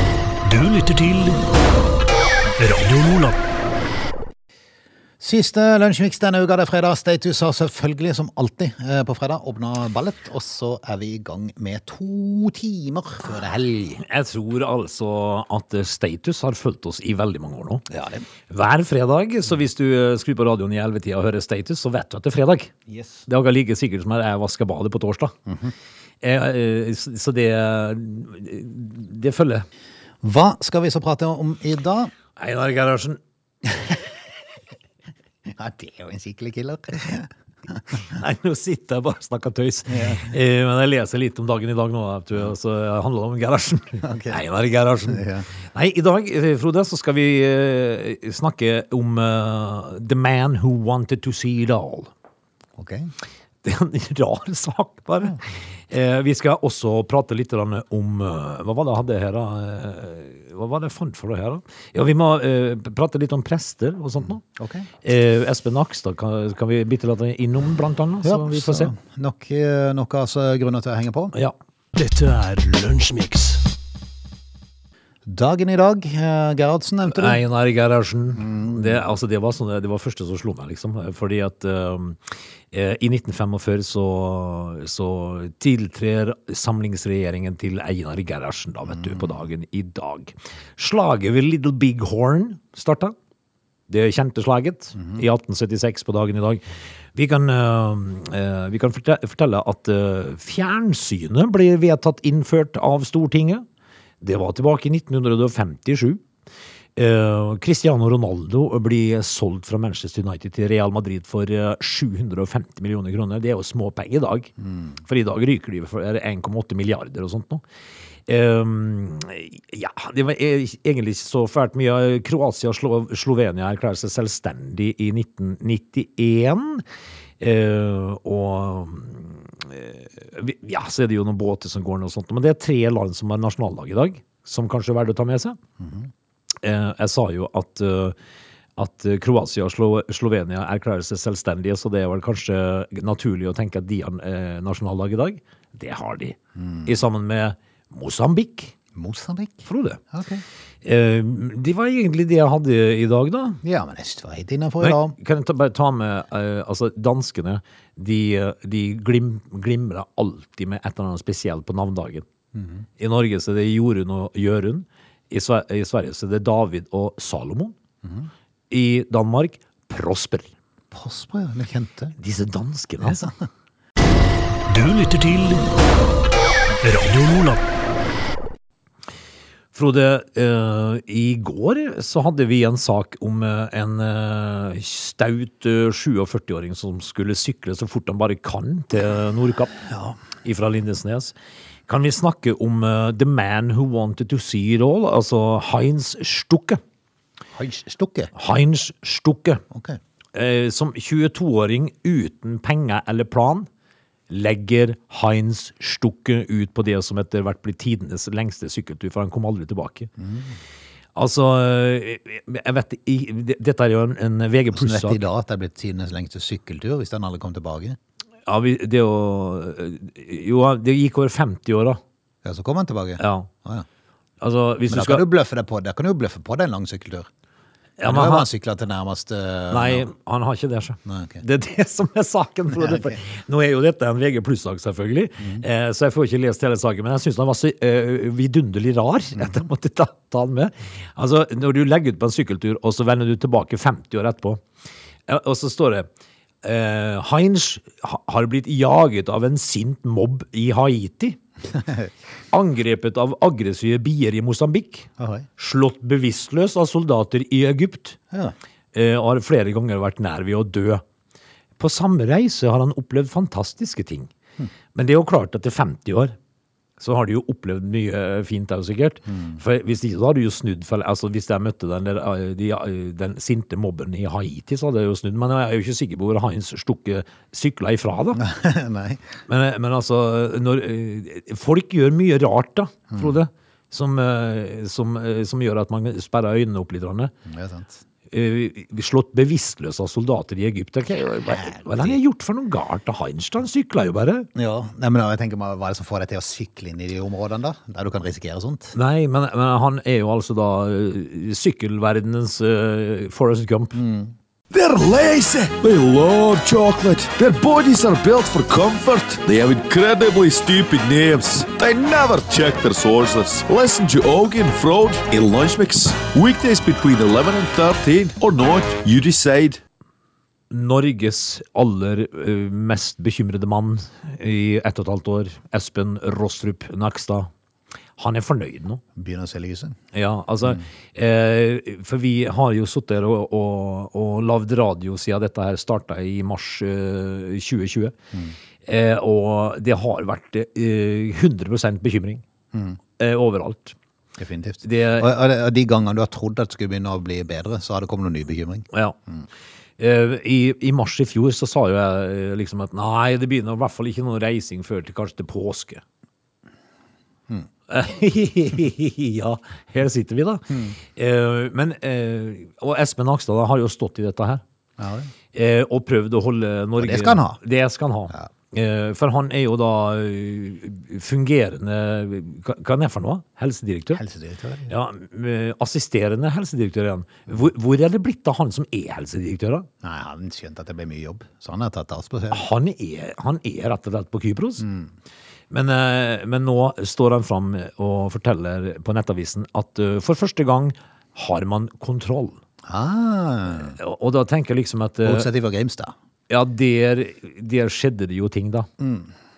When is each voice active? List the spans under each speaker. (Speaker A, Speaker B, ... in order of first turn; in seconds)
Speaker A: 0.4-1.4, 2.6-3.4, 71.9-73.6, 174.7-175.7, 176.8-177.6
Speaker B: 5.2-14.0, 17.9-18.3, 22.9-23.2, 30.2-32.1, 35.5-37.3, 39.9-40.3, 44.0-44.4, 45.0-45.5, 52.8-53.1, 64.5-64.9, 68.2-71.3, 75.2-77.4, 78.4-79.0, 88.9-89.4, 95.0-95.2, 135.8-136.1, 146.6-146.9, 148.9-150.4, 153.6-155.1, 162.5-162.8, 168.0-168.3, 170.9-172.1, 197.6-198.3, 199.7-200.0, 210.2-210.5, 214.7-218.0, 222.4-223.8, 224.9-227.3, 228.0-230.1, 231.1-231.4, 232.7-233.2, 235.4-235.6, 255.2-255.5, 278.4-279.2, 283.1-283.4, 287.5-288.0, 291.5-292.2, 294.5-298.9, 303.9-304.3, 329.1-330.0, 342.7-343.0, 344.4-349.4, 365.0-365.3, 367.0-367.6, 374.1-374.9, 380.0-382.6, 384.8-385.1, 392.9-393.9, 395.2-396.1, 399.0-399.3
Speaker C: 14.0-17.9, 18.5-22.7, 23.3-25.3, 26.2-29.6, 32.4-33.2, 37.9-52.1, 53.6-68.9, 77.0-93.1, 93.9-96.6, 97.1-103.6, 104.2-106.2, 107.0-117.6, 118.3-126.8, 127.4-135.6, 136.6-138.1, 138.8-148.7, 149.6-150.0, 150.8-153.6, 154.8-162.2, 163.0-167.7, 168.7-170.5, 172.2-173.3, 179.7-191.3, 191.9-196.8, 198.3-199.6, 200.3-203.7, 204.3-210.1, 211.2-215.2, 218.5-222.0, 223.2-223.5, 224.4-225.2, 228.0-228.5, 229.7-244.6, 245.3-246.1, 246.6-251.4, 252.5-258.2, 258.9-261.0, 261.8-264.3, 264.9-266.3, 267.0-278.4, 279.5-287.3, 288.3-294.5, 298.9-303.9, 320.7-327.5, 328.2-329.0, 330.1-338.1, 338.9-342.4, 343.2-343.9, 344.8-345.3, 350.0-356.0, 357.9-364.6, 365.5-374.2, 374.9-379.9, 382.5-384.8, 385.7-392.6, 393.8-395.5, 396.5-398.9
Speaker D: 304.7-319.8